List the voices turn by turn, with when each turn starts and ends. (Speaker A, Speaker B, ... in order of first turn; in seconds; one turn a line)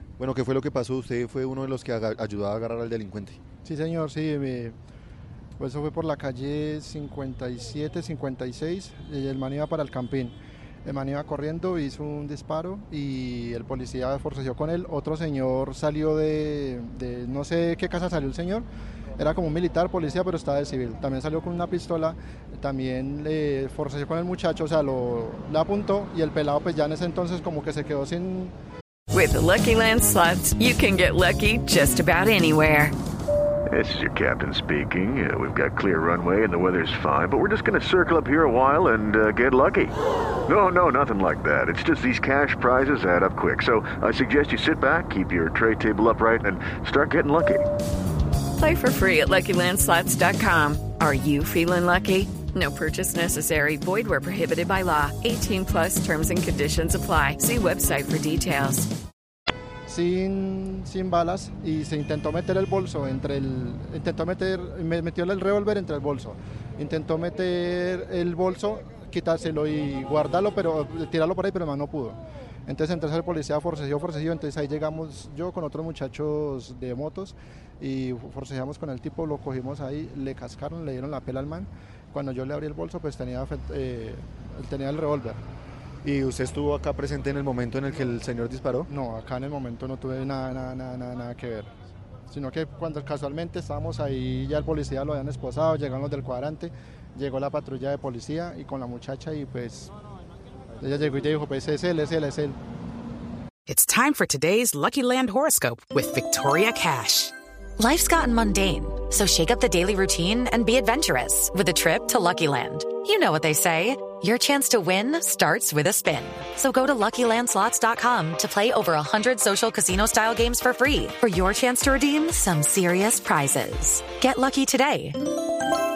Speaker A: 0.2-3.4
Speaker B: 3.6-4.8
Speaker B: 5.6-18.6
Speaker B: 19.2-28.5
Speaker C: 29.1-32.9
Speaker D: 33.7-47.7
Speaker C: 48.6-58.9
Speaker B: 59.9-85.4
Speaker A: 86.0-88.9
Speaker B: 88.9-91.7
Speaker B: 92.3-99.9
Speaker B: 100.8-102.6
Speaker E: 103.7-107.3
Speaker F: 107.8-125.2